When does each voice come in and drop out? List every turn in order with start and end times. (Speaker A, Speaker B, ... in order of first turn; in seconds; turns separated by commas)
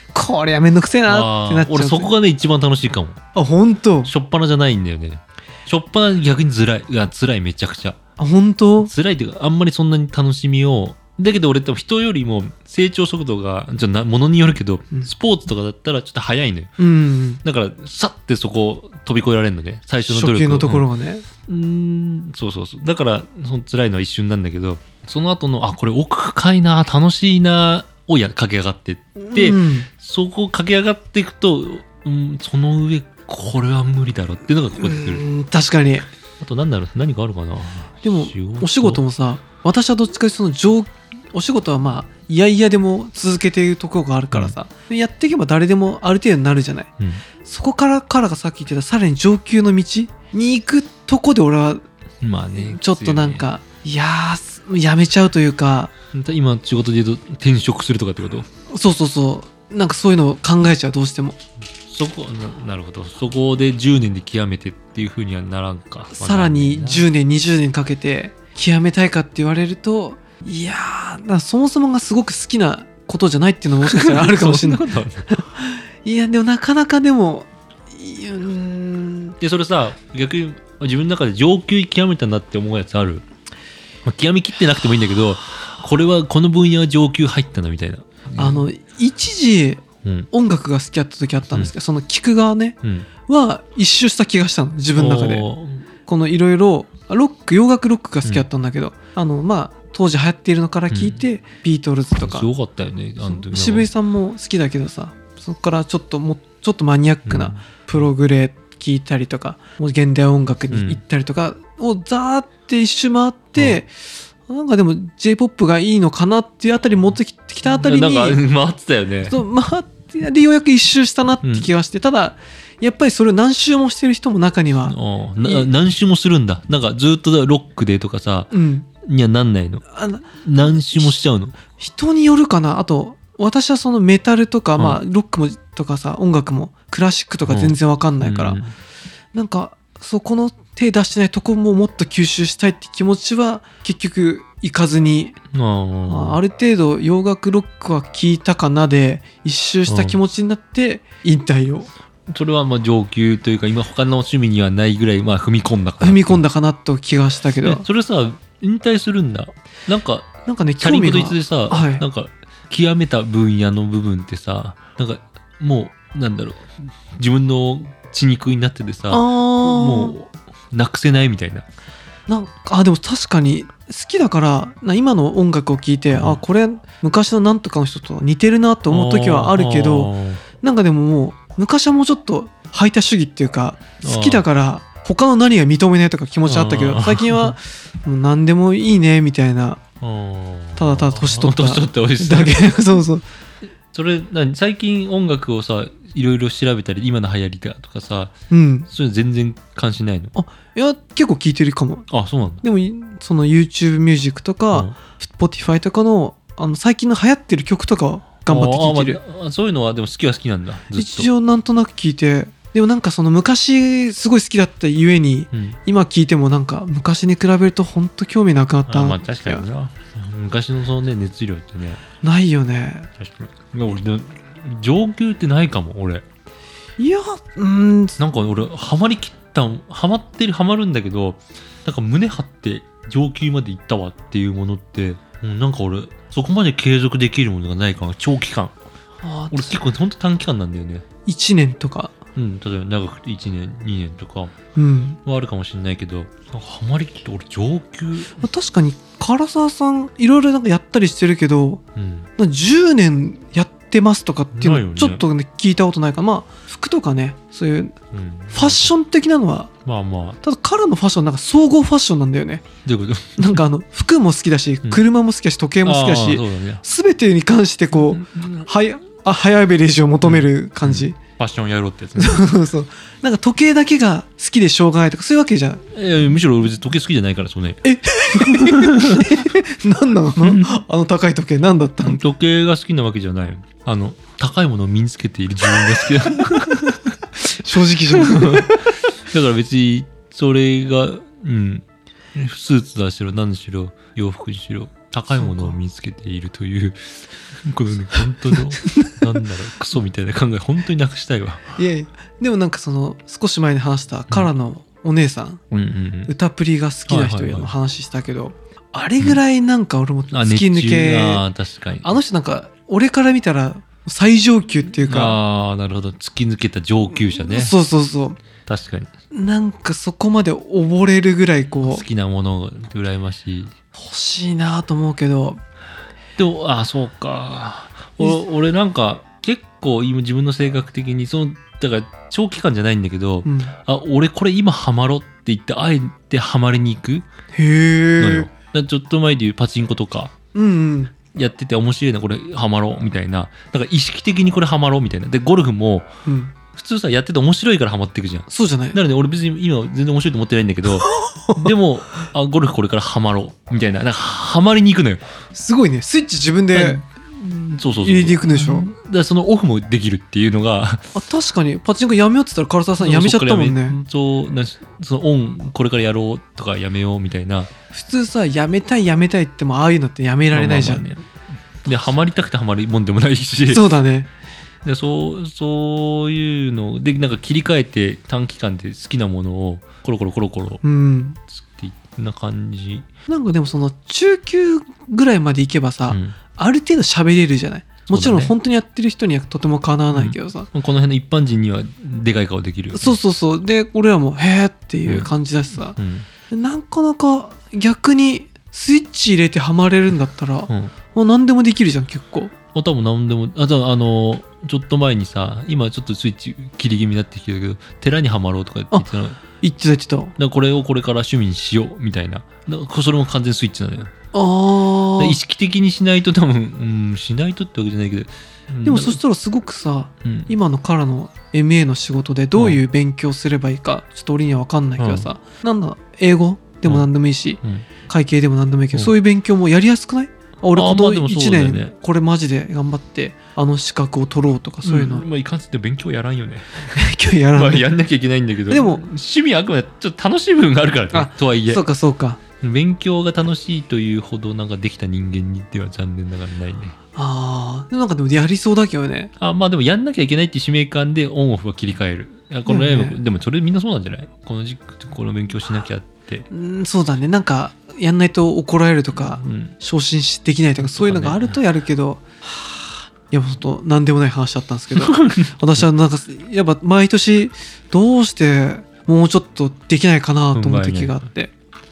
Speaker A: 0.1-2.1, Speaker B: 1.1-3.2, Speaker A: 3.3-4.1, Speaker B: 4.0-8.0, Speaker A: 8.2-8.9, Speaker B: 8.8-16.7, Speaker A: 16.8-17.4, Speaker B: 17.4-20.9, Speaker A: 20.0-21.2, Speaker B: 21.5-35.2, Speaker A: 29.2-29.9, Speaker A: 34.8-36.1, Speaker B: 36.4-39.0, Speaker A: 38.0-46.9, Speaker A: 47.4-51.8, Speaker B: 52.2-53.5, Speaker A: 52.5-55.9, Speaker B: 56.1-58.5, Speaker A: 58.7-61.4, Speaker B: 61.9-67.1, Speaker A: 66.1-79.3, Speaker B: 73.8-75.3, Speaker B: 79.4-83.2, Speaker B: 84.0-88.7, Speaker A: 88.4-92.8, Speaker B: 90.0-90.3, Speaker A: 93.3-95.5, Speaker B: 94.9-95.8, Speaker A: 96.0-102.5, Speaker B: 100.9-101.2, Speaker B: 102.2-103.9, Speaker A: 103.2-113.9, Speaker B: 107.2-108.1, Speaker B: 110.7-111.0, Speaker A: 114.5-118.4, Speaker B: 117.6-119.4, Speaker A: 119.3-125.7, Speaker B: 121.4-121.7, Speaker B: 124.8-128.5, Speaker A: 128.5-128.9, Speaker B: 129.0-129.8, Speaker A: 129.9-131.1, Speaker B: 130.4-131.6, Speaker A: 131.8-138.6, Speaker B: 137.5-138.7, Speaker A: 139.3-145.3, Speaker B: 145.5-146.4, Speaker A: 146.1-151.9, Speaker B: 149.9-150.2, Speaker B: 152.3-156.4, Speaker A: 156.0-157.8, Speaker B: 157.6-171.6, Speaker A: 160.4-162.0, Speaker A: 169.1-170.2, Speaker A: 172.3-189.8, Speaker B: 176.1-176.4, Speaker B: 178.9-180.4, Speaker B: 184.0-184.4, Speaker B: 186.4-187.6, Speaker B: 190.0-192.7, Speaker A: 190.8-193.2, Speaker B: 193.9-198.3, Speaker A: 198.5-198.9, Speaker B: 198.9-200.3, Speaker A: 200.3-202.1, Speaker B: 202.1-202.6, Speaker A: 202.6-209.2, Speaker B: 208.5-211.3, Speaker A: 210.9-219.6, Speaker B: 215.5-215.8, Speaker B: 218.9-222.0, Speaker A: 222.2-223.1, Speaker B: 223.2-226.2, Speaker A: 227.0-228.2, Speaker B: 228.2-238.7, Speaker A: 239.2-239.8, Speaker B: 239.5-241.0, Speaker A: 241.2-242.1, Speaker B: 242.3-244.5, Speaker A: 244.8-245.2, Speaker B: 245.2-248.4, Speaker A: 248.4-251.8, Speaker B: 251.9-252.3, Speaker A: 252.4-257.9, Speaker B: 254.5-255.2, Speaker B: 258.1-258.9, Speaker A: 258.5-259.7, Speaker B: 259.8-260.4, Speaker A: 260.4-262.6, Speaker B: 262.8-263.6, Speaker A: 263.4-271.2, Speaker B: 265.8-266.8, Speaker B: 267.9-268.7, Speaker B: 270.2-272.5, Speaker A: 272.2-275.8, Speaker B: 275.9-279.5, Speaker A: 277.8-282.2, Speaker B: 280.4-280.7, Speaker B: 282.0-287.1, Speaker A: 287.4-288.9, Speaker B: 288.1-301.7, Speaker A: 295.4-295.8, Speaker A: 298.8-299.2, Speaker A: 301.8-305.6, Speaker B: 305.7-306.3, Speaker A: 306.3-311.4, Speaker B: 307.1-307.7, Speaker B: 310.3-312.1, Speaker A: 312.0-315.4, Speaker B: 315.0-317.7, Speaker A: 317.4-318.4, Speaker B: 318.7-319.1, Speaker A: 319.3-322.0, Speaker B: 321.8-323.7, Speaker A: 323.9-325.6, Speaker B: 326.4-337.3, Speaker A: 333.4-333.7, Speaker A: 337.5-338.5, Speaker B: 338.2-340.3, Speaker A: 340.5-341.1, Speaker B: 341.3-346.1, Speaker A: 346.2-346.5, Speaker B: 346.7-355.2, Speaker A: 348.5-349.0, Speaker A: 351.1-351.7, Speaker A: 355.5-357.0, Speaker B: 356.7-361.1, Speaker A: 358.0-358.9, Speaker A: 361.1-364.0, Speaker B: 363.0-367.7, Speaker A: 367.9-371.1, Speaker B: 370.5-371.3, Speaker B: 371.8-373.9, Speaker A: 373.7-374.3, Speaker B: 374.8-380.8, Speaker A: 380.8-381.4, Speaker B: 381.5-383.1, Speaker A: 383.3-390.7, Speaker B: 386.1-386.4, Speaker B: 388.1-388.5, Speaker B: 390.1-393.2, Speaker A: 392.9-396.0, Speaker B: 395.0-395.3, Speaker B: 395.9-396.2, Speaker A: 396.5-402.5, Speaker B: 402.7-409.4, Speaker A: 409.6-410.3, Speaker B: 410.4-414.1, Speaker A: 414.3-415.4, Speaker B: 415.2-419.2, Speaker A: 418.8-435.2, Speaker B: 420.2-420.5, Speaker B: 422.5-422.8, Speaker B: 425.0-425.3, Speaker B: 430.7-431.9, Speaker B: 434.8-441.8, Speaker A: 436.9-437.9, Speaker A: 438.7-439.0, Speaker A: 441.1-442.4, Speaker B: 442.6-446.9, Speaker A: 447.1-449.3, Speaker B: 449.4-456.5, Speaker A: 452.6-453.2, Speaker A: 456.5-471.5, Speaker B: 459.1-459.8, Speaker B: 460.8-461.6, Speaker B: 464.9-465.5, Speaker B: 470.5-471.2